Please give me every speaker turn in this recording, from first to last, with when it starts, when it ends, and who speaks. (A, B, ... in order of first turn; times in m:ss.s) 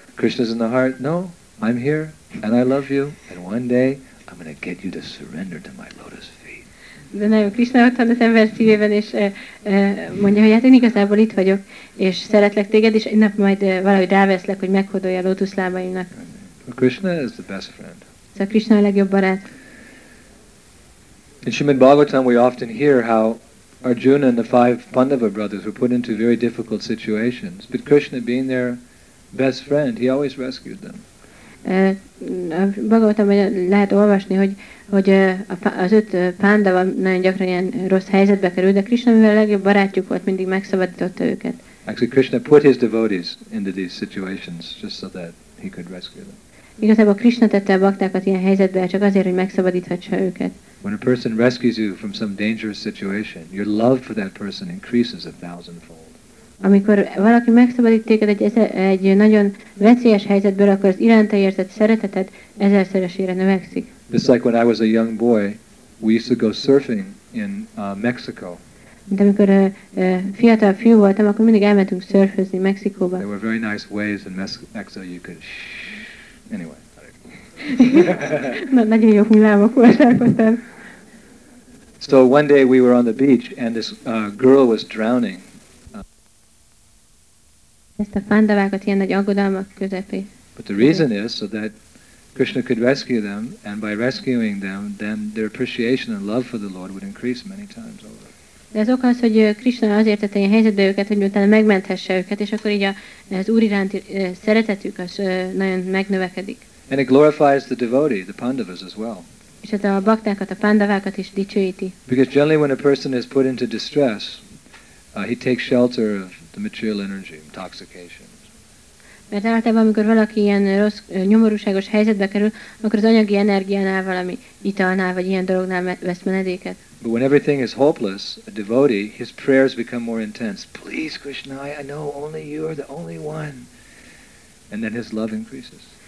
0:00.2-0:06.6 A
0:07.1-0:16.1 B
0:16.6-0:18.0 A
0:18.4-0:19.4 B
0:21.4-0:28.8 A
0:29.3-0:31.0 A
0:31.6-0:41.6 B
0:41.9-0:46.4 A
0:46.8-0:50.6 B
0:50.8-0:56.2 A
0:56.6-1:03.9 B
1:04.1-1:08.6 A
1:09.1-1:13.2 B
1:13.2-1:17.1 A
1:17.7-1:20.6 B
1:17.8-1:18.5 A
1:22.0-1:25.4 A
1:28.0-1:30.3 B
1:30.6-1:31.7 A
1:32.4-1:38.3 A
1:38.7-1:46.6 B
1:46.9-1:49.3 A
1:49.6-1:51.9 B
1:52.1-1:54.4 A
1:55.1-1:58.4 A
1:59.3-2:06.8 B
2:07.0-2:13.7 A
2:14.7-2:15.9 A